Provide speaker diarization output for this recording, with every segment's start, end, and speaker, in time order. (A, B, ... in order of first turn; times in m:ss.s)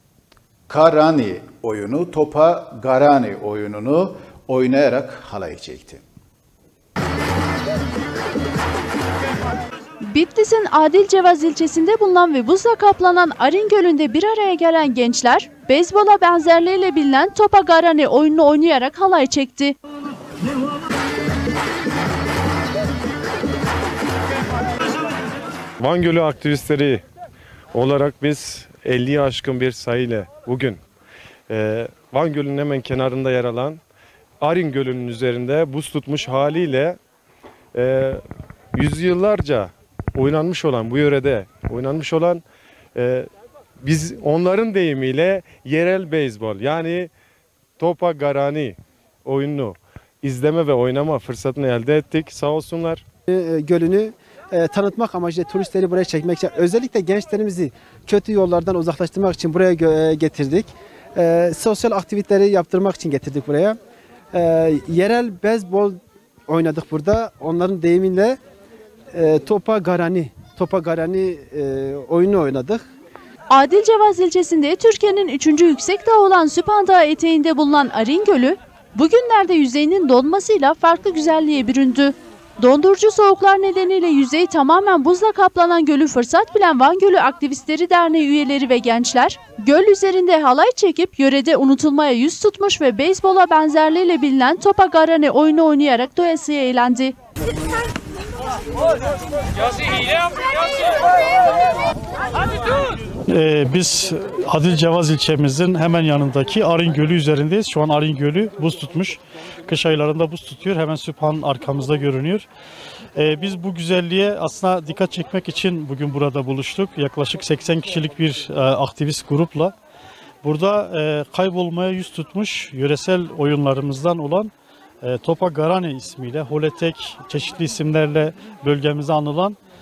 0:00.7-0:06.0 A
0:10.0-0:19.8 B
0:25.8-0:27.0 C
0:27.7-0:30.8 C
0:31.5-0:33.8 C
0:34.4-0:37.0 C
0:37.7-0:38.2 C
0:38.7-0:42.4 C
0:43.0-0:43.3 C
0:43.8-0:47.1 C
0:47.8-0:53.0 C
0:53.3-1:03.8 D
1:04.3-1:08.4 D
1:09.1-1:12.8 D
1:13.5-1:37.2 B
1:43.3-1:52.5 E
1:53.2-1:59.8 E
2:00.4-2:04.5 E
2:05.0-2:09.6 E